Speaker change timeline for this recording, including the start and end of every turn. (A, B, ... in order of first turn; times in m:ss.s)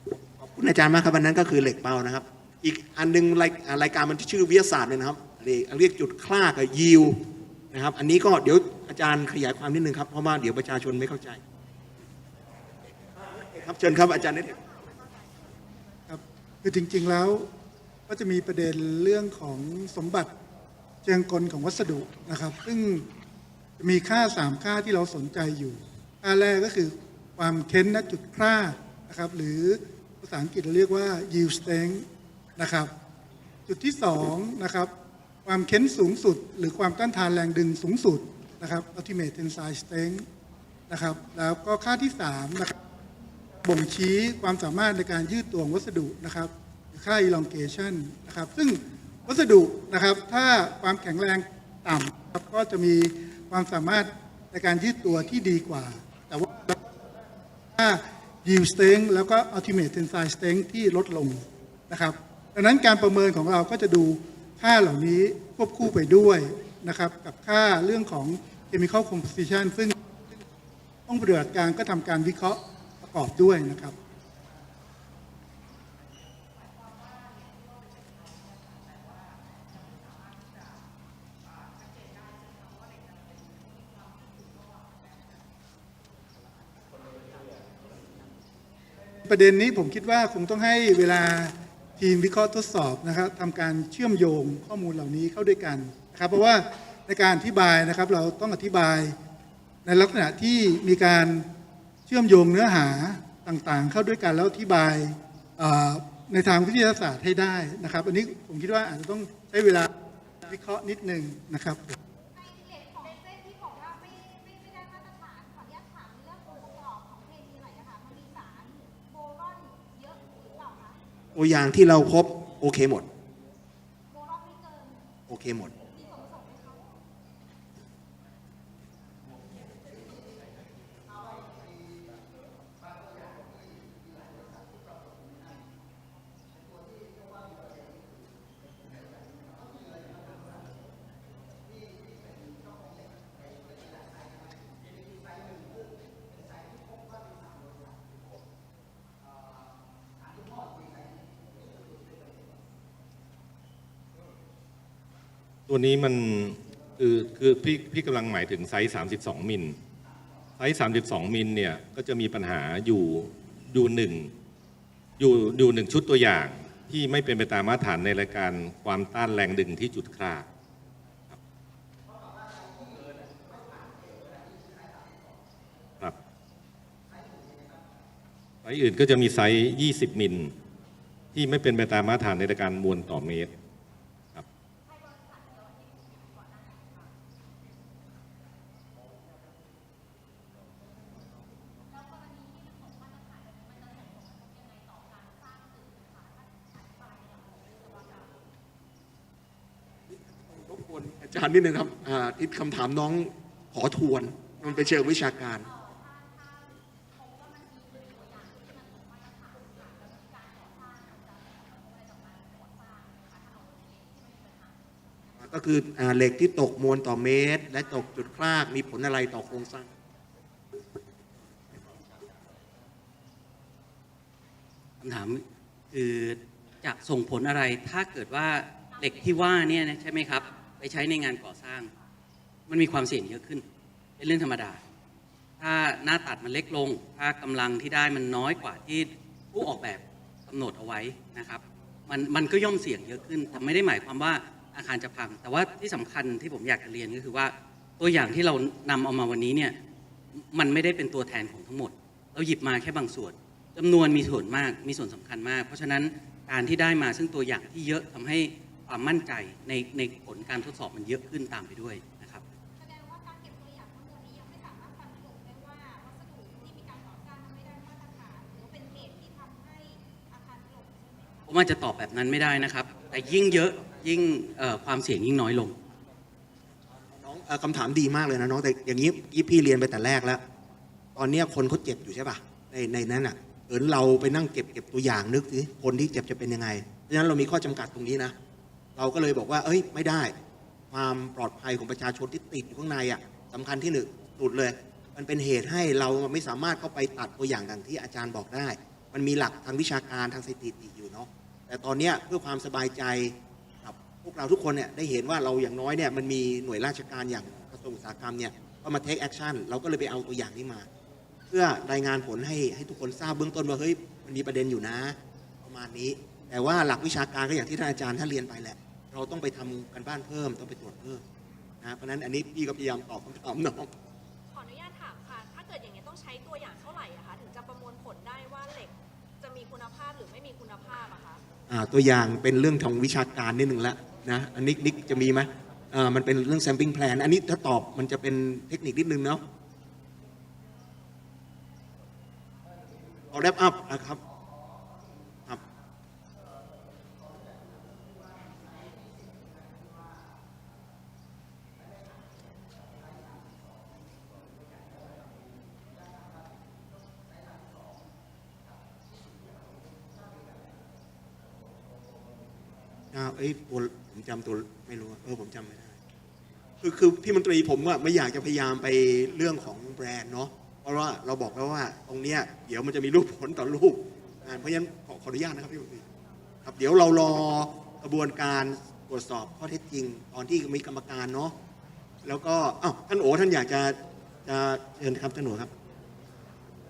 0:00.4-0:07.2 A
0:07.7-0:11.4 A
0:13.5-0:14.6 A
0:16.1-0:17.5 B
0:18.1-0:20.3 B
0:21.0-0:23.1 B
0:23.8-0:32.9 B
0:33.7-0:34.9 B
0:35.4-0:40.2 B
0:40.9-0:42.7 B
0:43.6-0:56.8 B
0:57.7-1:10.4 B
1:11.1-1:13.9 B
1:29.2-1:39.2 B
1:39.8-1:41.5 B
1:42.1-1:49.9 B
1:50.4-1:52.0 B
1:52.3-2:01.0 C
2:01.4-2:03.0 A
2:04.1-2:05.0 C
2:05.3-2:05.7 A
2:05.9-2:07.0 C
2:35.7-2:39.8 D
2:40.6-2:44.3 D
2:45.2-2:50.5 D
2:58.6-3:00.5 D
3:01.3-3:03.5 D
3:06.4-3:06.9 E
3:13.5-3:16.4 E
3:20.1-3:25.6 A
3:25.6-3:26.5 C
3:27.2-3:29.6 C
3:28.0-3:29.0 E
3:30.3-3:34.4 C
3:30.6-3:31.2 E
3:35.5-3:39.9 A
3:45.0-3:51.9 F
3:52.7-3:53.6 F
3:54.2-3:54.8 F
3:55.6-4:09.7 F
4:10.3-4:22.4 F
4:22.8-4:31.4 C
4:31.5-4:35.8 F
4:37.2-4:40.4 A
4:41.2-4:48.3 A
4:49.0-4:50.3 A
4:50.9-5:10.9 A
5:11.5-5:21.2 A
5:21.8-5:23.9 A
5:24.5-5:31.4 E
5:31.7-5:39.4 A
5:43.3-5:44.2 A
6:03.1-6:05.9 A
6:06.8-6:16.0 A
6:16.6-6:21.5 A
6:22.2-6:25.7 A